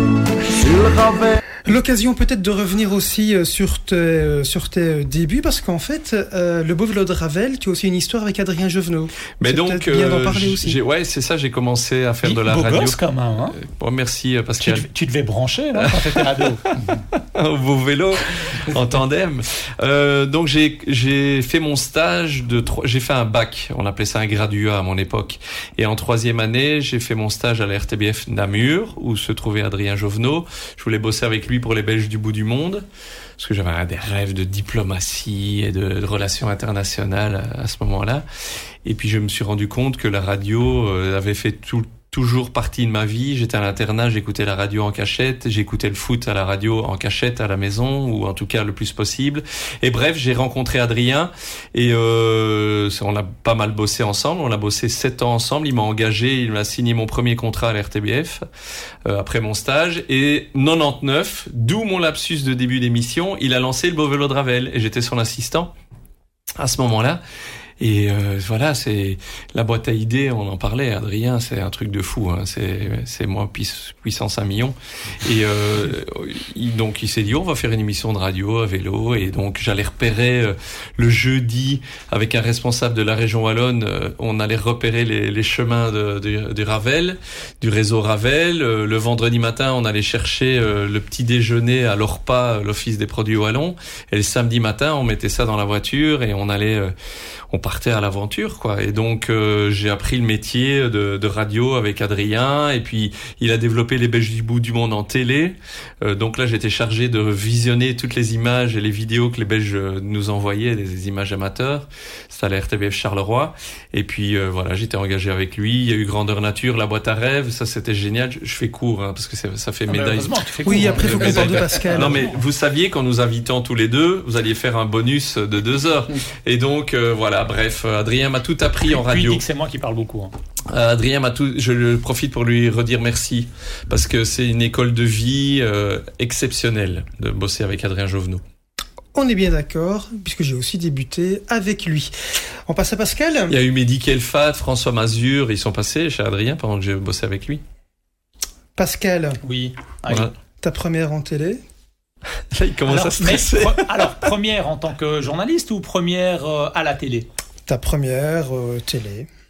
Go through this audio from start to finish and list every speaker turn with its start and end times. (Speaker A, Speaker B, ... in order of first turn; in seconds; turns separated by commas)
Speaker A: 0.6-1.4, Speaker B: 1.7-10.8, Speaker A: 9.4-14.9, Speaker C: 12.2-13.6, Speaker C: 14.6-16.6, Speaker A: 15.8-32.9, Speaker A: 33.4-38.2, Speaker A: 38.9-58.4, Speaker A: 59.1-65.7, Speaker A: 66.6-67.2, Speaker A: 67.8-96.9, Speaker A: 97.5-129.4, Speaker C: 119.9-122.4, Speaker B: 120.7-122.3, Speaker C: 128.9-130.3, Speaker A: 130.7-138.4, Speaker B: 139.2-142.1, Speaker B: 142.7-143.5, Speaker A: 143.5-147.6, Speaker B: 148.8-149.4, Speaker C: 149.4-150.3, Speaker B: 150.6-151.6, Speaker A: 152.5-154.1, Speaker C: 152.9-157.3, Speaker B: 157.7-159.3